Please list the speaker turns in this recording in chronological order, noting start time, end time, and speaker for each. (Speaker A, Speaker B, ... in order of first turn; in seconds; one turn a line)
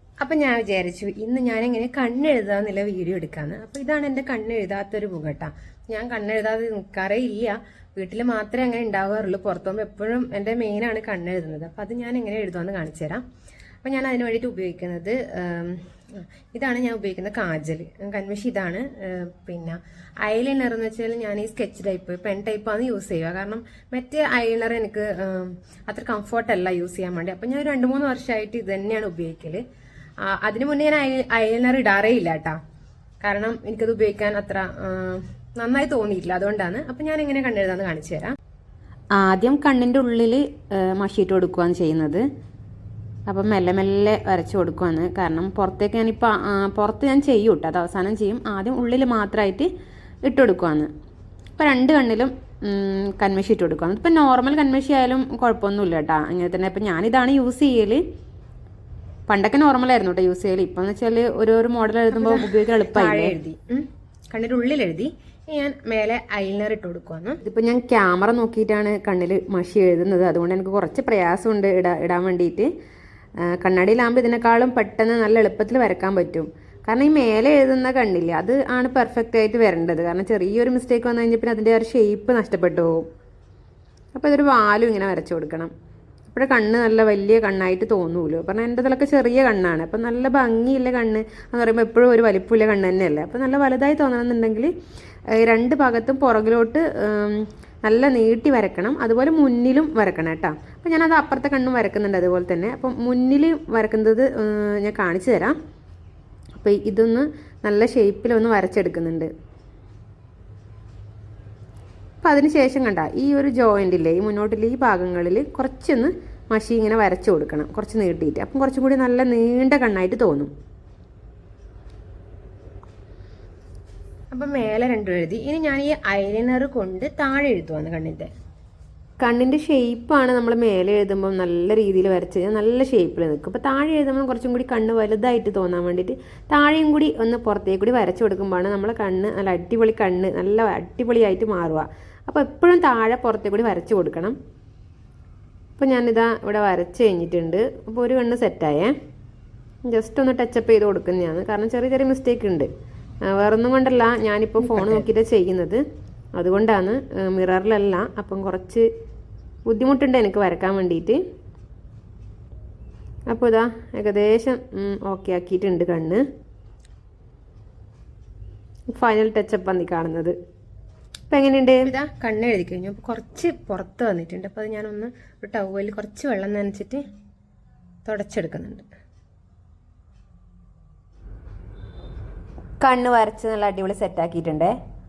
Speaker A: 0.2-13.2
Speaker A: 13.8-29.6
Speaker A: 30.2-32.6
Speaker A: 33.2-38.3
Speaker B: 39.1-42.2
Speaker B: 43.3-49.7
Speaker B: 50.2-50.9
Speaker B: 51.6-58.0
Speaker B: 59.3-63.3
Speaker A: 62.1-67.4
Speaker B: 67.4-72.7
Speaker B: 73.4-83.0
Speaker B: 84.1-85.7
Speaker B: 86.3-94.7
Speaker B: 95.3-105.5
Speaker B: 106.5-109.3
Speaker B: 112.2-120.5
Speaker A: 124.3-128.3
Speaker B: 129.2-144.3
Speaker B: 145.8-148.9
Speaker B: 149.8-152.7
Speaker B: 153.2-155.8
Speaker B: 156.3-158.8
Speaker B: 159.7-161.2
Speaker B: 163.3-166.2
Speaker B: 168.9-170.3
Speaker B: 171.3-171.9
Speaker A: 171.8-177.0
Speaker A: 178.0-178.9
Speaker B: 182.8-184.7